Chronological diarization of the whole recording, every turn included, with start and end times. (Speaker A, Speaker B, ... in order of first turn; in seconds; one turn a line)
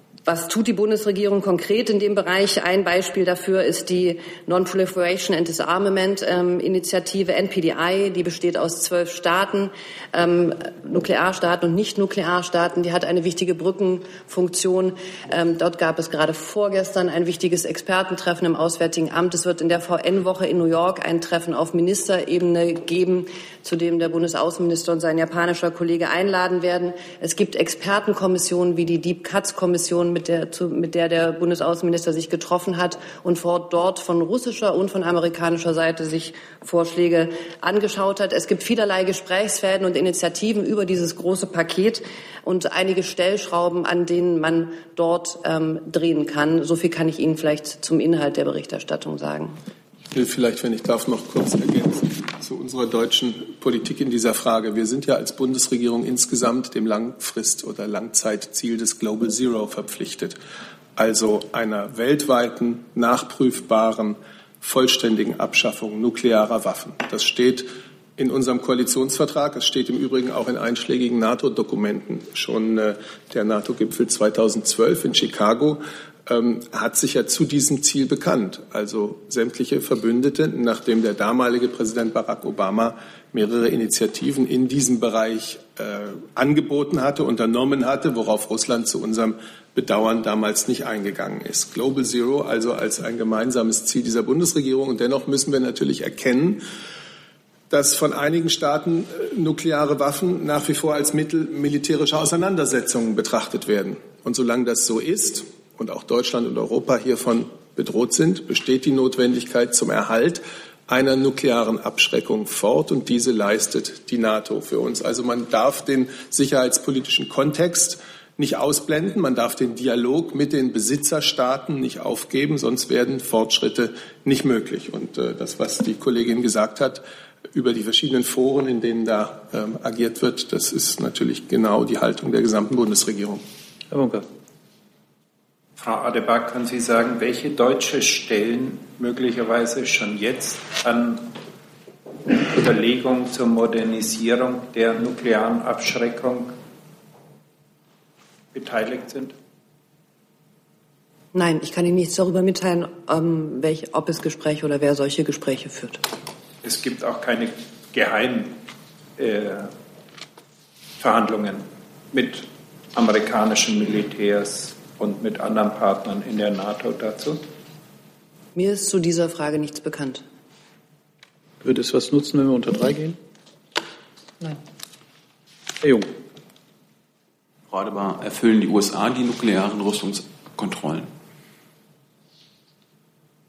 Speaker A: 0.2-49.5
Speaker B: 50.1-60.4
Speaker B: 61.0-96.6
Speaker B: 97.7-133.4
Speaker C: 133.9-134.2
Speaker D: 135.8-141.3
Speaker D: 142.2-146.5
Speaker D: 148.5-149.3
Speaker A: 151.3-156.0
Speaker D: 156.6-158.6
Speaker D: 159.2-159.7
Speaker D: 161.0-167.4
Speaker A: 168.5-170.2
Speaker C: 171.6-173.2
Speaker C: 175.8-176.1
Speaker E: 177.7-181.1